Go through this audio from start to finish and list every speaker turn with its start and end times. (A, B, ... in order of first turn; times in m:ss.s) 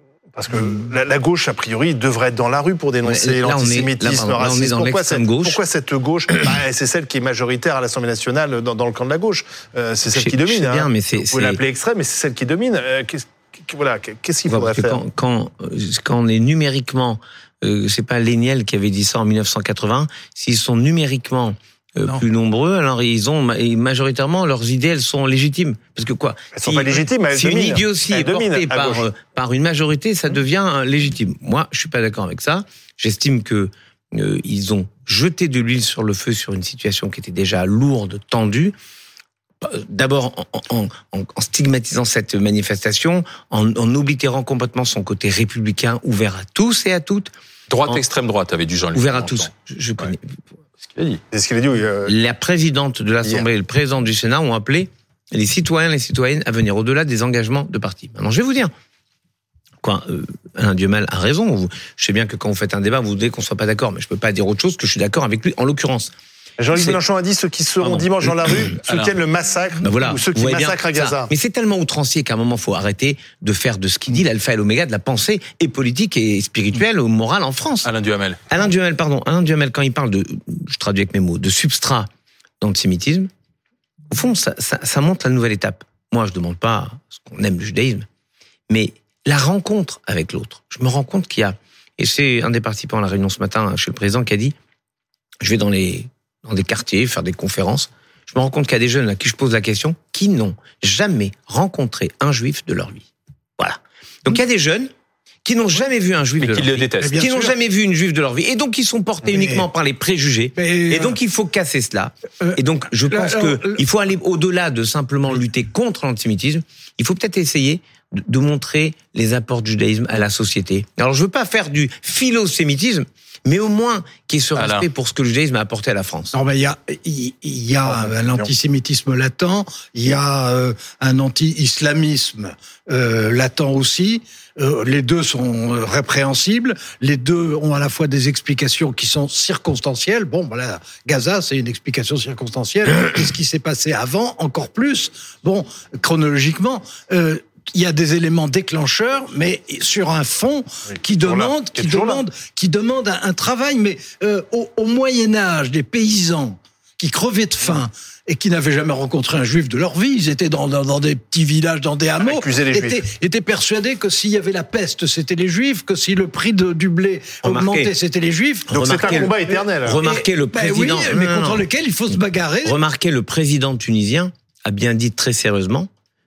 0:00.3-0:15.0 A
0:03.0-0:05.6 B
0:10.1-0:11.6 B
0:14.5-0:38.8 B
0:26.5-0:29.1 A
0:39.6-0:47.3 B
0:47.7-0:49.5 C
0:48.9-0:50.3 B
0:50.8-0:51.2 C
0:51.3-0:52.1 A
0:52.1-0:58.7 B
0:59.8-1:06.1 B
1:06.6-1:11.3 A
1:06.7-1:07.0 B
1:08.8-1:09.2 C
1:09.8-1:17.9 B
1:17.8-1:18.4 C
1:18.5-1:22.1 B
1:22.6-1:23.3 B
1:24.1-1:28.0 B
1:28.7-1:34.6 B
1:35.4-1:44.9 B
1:45.4-2:06.4 B
1:46.4-1:47.2 C
1:47.0-1:47.6 D
1:49.3-1:49.7 D
1:50.6-1:51.2 D
1:52.4-1:53.8 D
2:04.6-2:04.9 C
2:06.3-2:48.7 D
2:31.1-2:32.2 A
2:42.2-2:43.0 A
2:47.4-2:47.9 B
2:48.7-2:55.9 B
2:48.7-2:50.0 A
2:49.5-2:52.8 D